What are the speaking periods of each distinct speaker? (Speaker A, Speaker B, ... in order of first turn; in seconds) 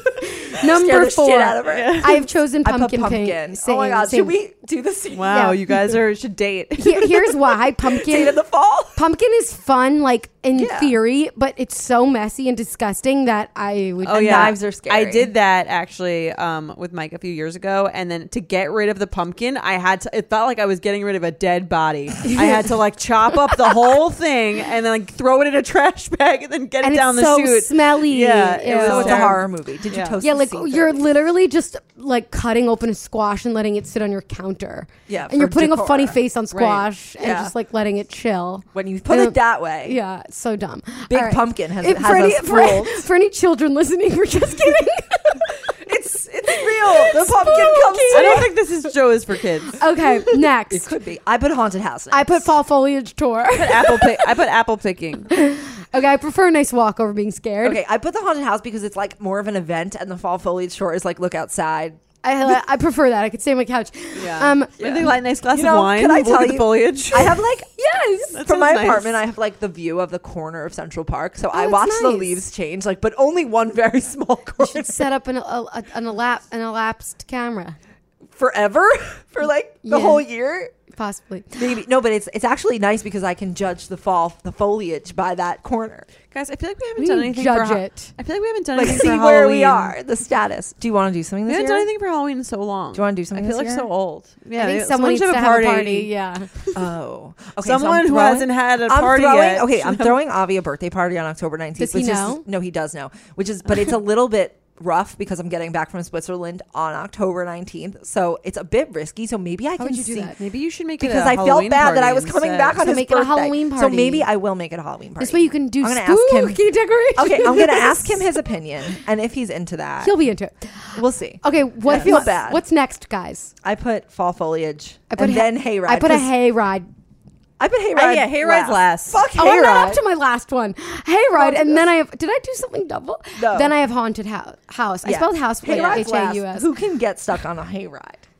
Speaker A: 0.4-4.4, 5.3-5.6, 6.8-8.4, 8.9-14.6, 22.2-22.7, 26.8-29.4, 30.2-45.6, 46.5-48.4, 49.8-50.9, 52.1-54.3, 55.3-57.8, 62.2-65.1, 67.8-68.4, 71.5-72.4, 74.6-77.8, 79.8-80.2, 80.9-81.7, 87.0-88.1, 94.6-96.5, 101.8-102.4, 109.8-110.3, 112.8-114.3, 115.2-118.3, 120.0-123.5, 125.1-126.9, 129.3-136.7
Speaker B: 0.6-2.1, 2.6-5.5, 7.8-9.0, 10.6-11.0, 14.1-15.3, 28.7-31.0, 35.1-36.2, 37.2-37.5, 38.7-40.0, 41.1-43.1, 45.8-48.6, 50.2-52.5, 57.6-62.0, 65.5-67.7, 68.3-75.1, 78.4-80.7, 81.5-86.1, 88.8-91.9, 92.9-93.9, 96.7-110.3, 111.0-116.6, 117.2-120.2, 121.0-122.6, 123.6-126.3, 127.6-130.0, 131.3-131.9, 133.4-133.7, 135.1-138.3
Speaker C: 1.6-2.2, 5.1-7.1, 14.0-30.2, 36.5-36.9, 48.1-49.8, 53.6-55.3, 64.2-67.5, 68.3-69.2, 86.3-90.0, 91.5-96.8, 97.6-100.2, 110.4-112.8, 121.9-122.2, 128.0-129.3, 135.7-136.0